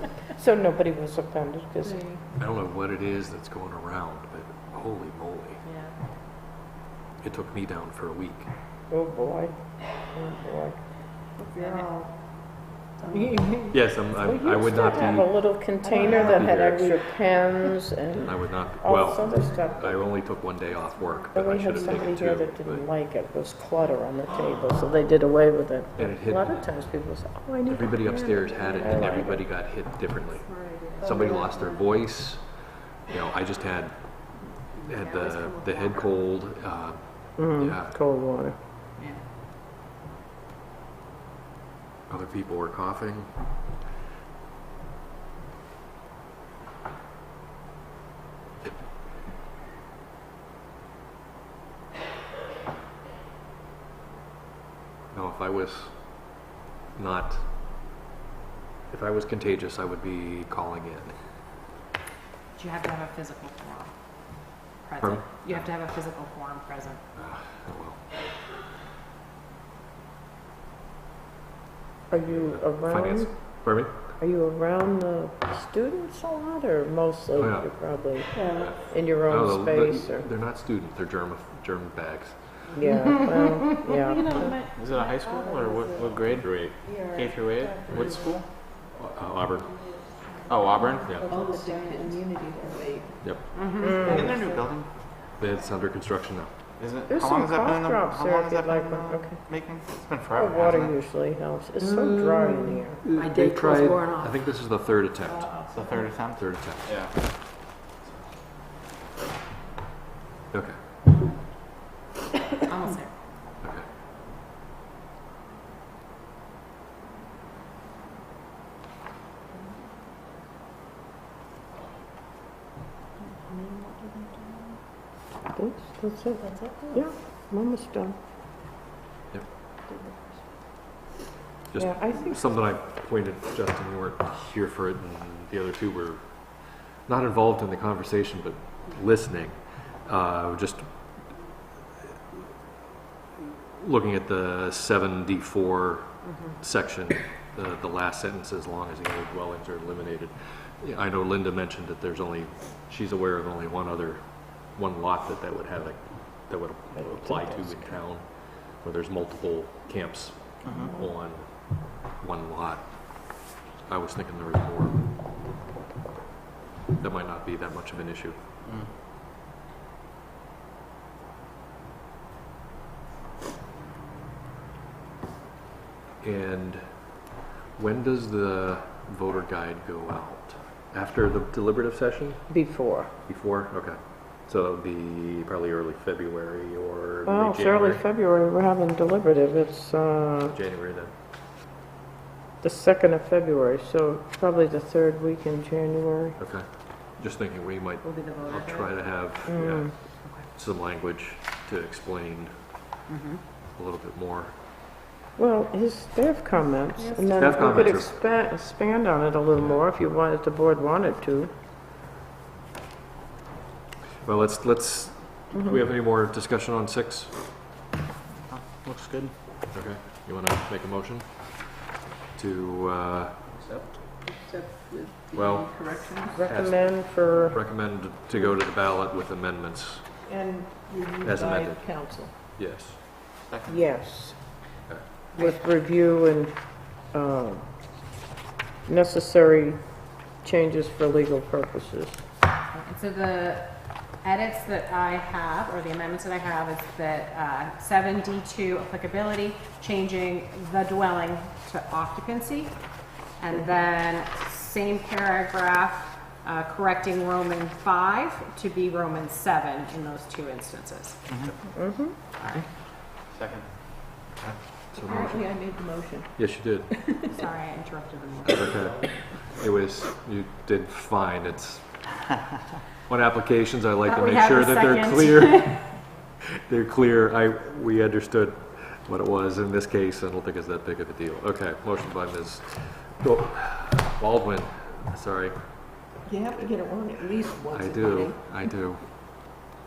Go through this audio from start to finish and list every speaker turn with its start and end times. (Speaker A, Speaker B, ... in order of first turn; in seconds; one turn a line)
Speaker A: 0.2-2.1
Speaker B: 1.9-2.1
Speaker C: 2.4-5.6
Speaker D: 5.7-5.9
Speaker C: 7.2-8.5
Speaker A: 8.9-10.8
Speaker B: 11.4-12.1
Speaker D: 11.6-11.9
Speaker B: 13.0-13.6
Speaker C: 13.7-15.5
Speaker A: 14.4-19.9
Speaker B: 15.8-16.9
Speaker C: 16.1-16.9
Speaker C: 18.2-22.8
Speaker A: 21.3-29.4
Speaker C: 26.0-26.8
Speaker C: 27.6-34.1
Speaker B: 30.5-31.7
Speaker C: 34.8-38.0
Speaker D: 35.0-36.0
Speaker A: 37.4-38.5
Speaker C: 42.1-43.4
Speaker C: 55.1-56.3
Speaker C: 57.0-57.5
Speaker C: 58.9-61.1
Speaker D: 62.5-63.9
Speaker D: 64.8-67.0
Speaker C: 65.0-65.7
Speaker C: 67.2-68.0
Speaker A: 72.1-73.3
Speaker C: 72.5-73.9
Speaker A: 74.2-80.3
Speaker C: 77.4-83.0
Speaker B: 78.3-78.7
Speaker A: 82.8-84.5
Speaker B: 84.0-86.0
Speaker E: 84.7-88.4
Speaker C: 86.4-86.8
Speaker B: 86.8-87.2
Speaker B: 87.7-88.2
Speaker C: 87.9-89.9
Speaker E: 90.5-91.2
Speaker B: 90.9-93.2
Speaker C: 93.2-93.5
Speaker D: 93.5-94.1
Speaker A: 93.8-94.4
Speaker B: 94.0-94.5
Speaker E: 94.0-94.9
Speaker C: 95.4-96.5
Speaker E: 96.8-100.9
Speaker A: 97.1-99.4
Speaker A: 100.4-103.0
Speaker B: 102.0-104.3
Speaker C: 103.0-105.5
Speaker B: 105.3-105.8
Speaker E: 105.7-107.1
Speaker C: 106.3-107.1
Speaker D: 112.7-113.1
Speaker B: 123.3-124.8
Speaker A: 125.5-128.2
Speaker B: 126.4-127.0
Speaker B: 129.9-130.4
Speaker C: 131.7-141.0
Speaker A: 131.8-132.3
Speaker C: 143.8-165.1
Speaker D: 146.2-146.6
Speaker A: 157.0-157.9
Speaker A: 160.7-161.1
Speaker C: 167.0-168.4
Speaker C: 176.2-177.1
Speaker C: 177.8-182.5
Speaker A: 182.5-183.1
Speaker C: 183.3-188.0
Speaker A: 187.2-190.6
Speaker C: 190.5-191.1
Speaker A: 192.6-196.3
Speaker C: 196.4-202.5
Speaker D: 198.0-198.9
Speaker A: 199.5-199.9
Speaker D: 203.1-203.4
Speaker C: 203.7-204.6
Speaker A: 205.3-211.5
Speaker D: 207.0-207.7
Speaker C: 207.4-208.2
Speaker C: 214.2-217.3
Speaker E: 218.5-219.3
Speaker C: 219.7-221.8
Speaker C: 222.3-223.4
Speaker B: 224.1-226.3
Speaker C: 225.3-230.1
Speaker A: 226.3-227.6
Speaker B: 230.3-232.3
Speaker C: 231.2-233.0
Speaker E: 233.5-233.9
Speaker A: 233.7-234.6
Speaker A: 235.3-237.6
Speaker A: 238.8-239.8
Speaker A: 240.4-242.2
Speaker D: 242.7-252.8
Speaker D: 253.3-261.2
Speaker A: 261.7-262.1
Speaker E: 263.2-263.7
Speaker C: 264.4-267.2
Speaker B: 265.0-266.4
Speaker B: 266.9-267.3
Speaker D: 267.3-268.7
Speaker C: 268.4-272.2
Speaker C: 273.1-276.0
Speaker D: 274.0-275.9
Speaker C: 276.7-286.1
Speaker B: 286.2-288.4
Speaker C: 287.7-289.1